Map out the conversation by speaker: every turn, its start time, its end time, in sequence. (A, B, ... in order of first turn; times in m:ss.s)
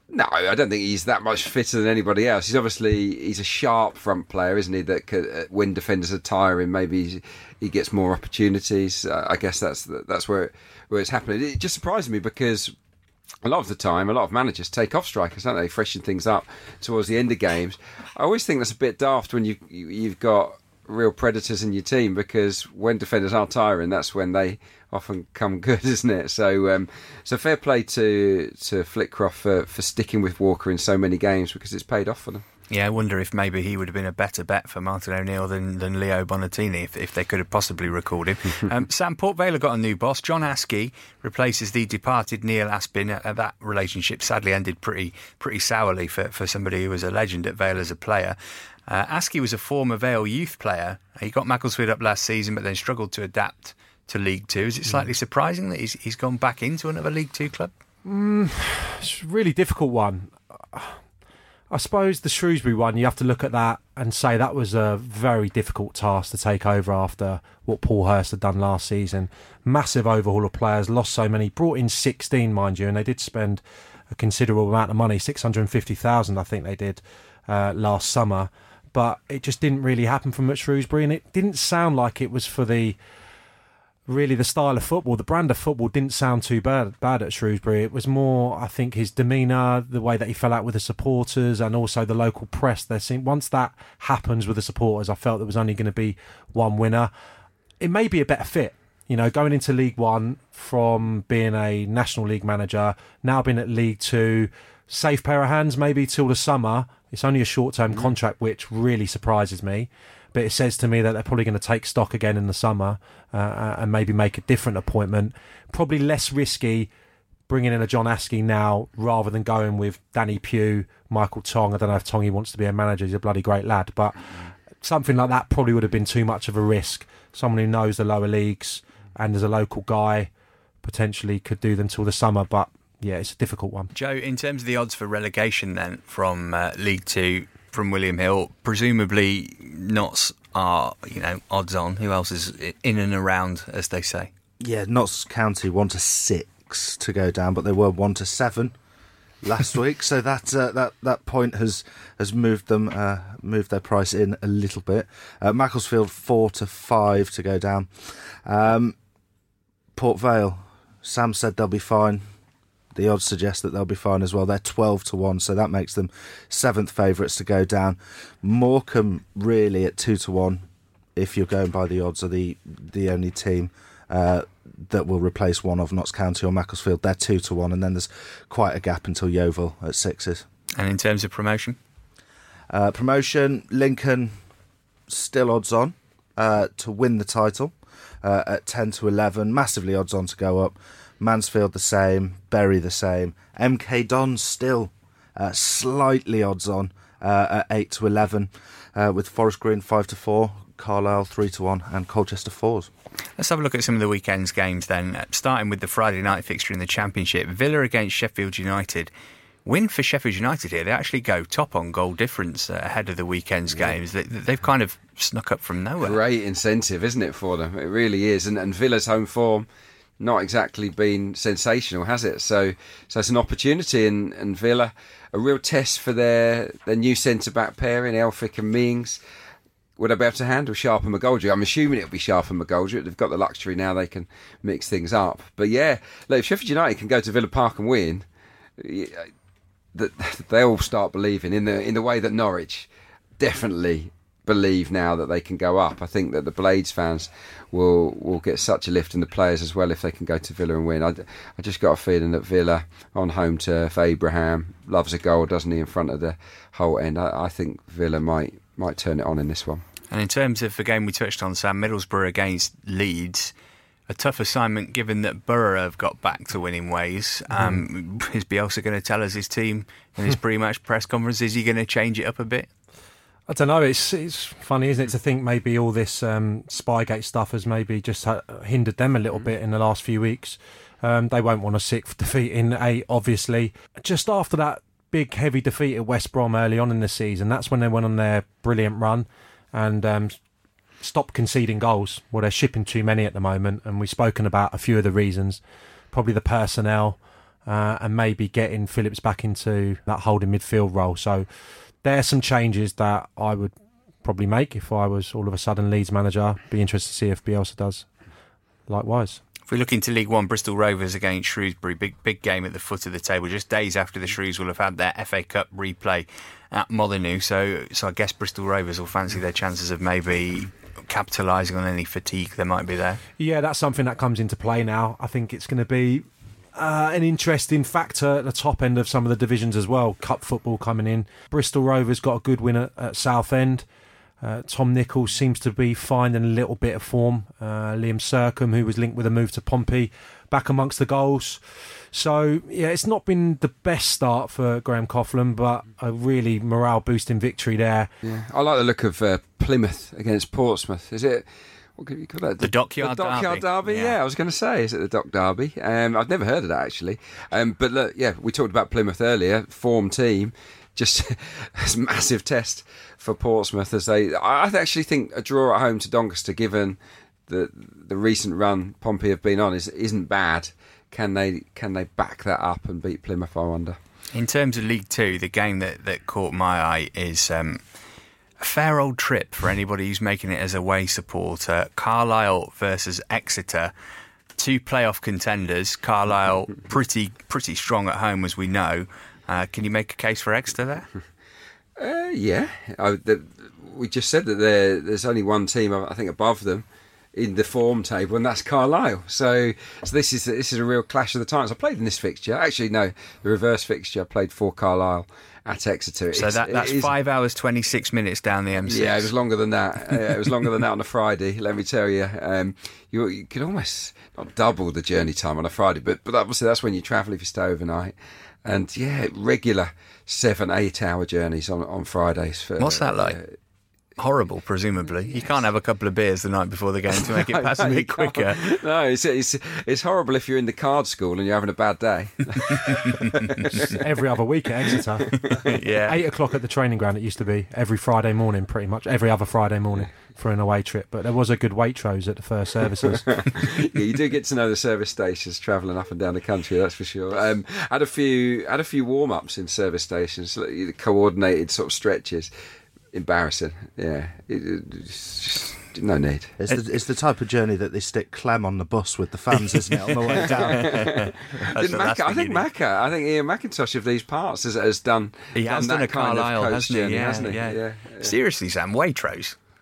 0:00.1-0:12.7 A
0:13.4-0:32.4 A
0:32.7-0:57.7 B
0:58.0-1:01.0 C
1:01.7-1:23.0 C
1:24.1-1:37.1 C
1:37.8-1:56.9 C
1:57.5-2:04.2 C
2:04.8-2:10.3 C
2:10.8-2:13.9 C
2:13.9-2:24.3 B
2:24.6-2:28.8 D
2:29.4-2:39.0 D
2:39.9-2:42.2 D
2:42.9-2:50.6 D
2:51.2-3:00.4 D
3:00.8-3:01.8 B
3:02.7-3:04.4 D
3:05.1-3:22.9 D
3:23.4-3:29.1 B
3:29.6-3:36.2 B
3:36.0-3:39.6 A
3:40.2-3:49.2 A
3:50.0-3:58.2 A
3:58.8-3:59.3 A
3:59.9-4:02.9 A
4:03.4-4:19.8 A
4:20.1-4:23.5 B
4:24.1-4:32.7 B
4:33.5-4:50.4 C
4:51.0-4:55.6 C
4:56.1-5:01.4 C
5:02.0-5:03.7 C
5:04.2-5:08.0 C
5:08.9-5:09.4 C
5:09.7-5:23.2 B
5:23.4-5:33.8 C
5:34.4-5:48.1 C
5:48.2-5:51.4 A
5:52.0-6:07.0 A
5:52.6-5:54.2 B
6:07.5-6:14.0 A
6:14.3-6:17.8 B
6:18.6-6:23.9 B
6:24.6-6:31.1 B
6:32.0-6:47.1 A
6:46.3-6:49.3 B
6:48.9-6:58.1 A
6:58.6-7:03.5 A
7:02.8-7:03.4 B
7:04.2-7:08.7 B
7:07.1-7:14.0 A
7:12.9-7:13.3 B
7:13.7-7:15.3 C
7:15.5-7:16.2 B
7:16.0-7:23.2 C
7:23.1-7:32.5 A
7:33.1-7:36.5 A
7:36.6-7:41.0 D
7:40.0-7:42.6 B
7:40.4-7:48.3 A
7:45.5-7:49.6 B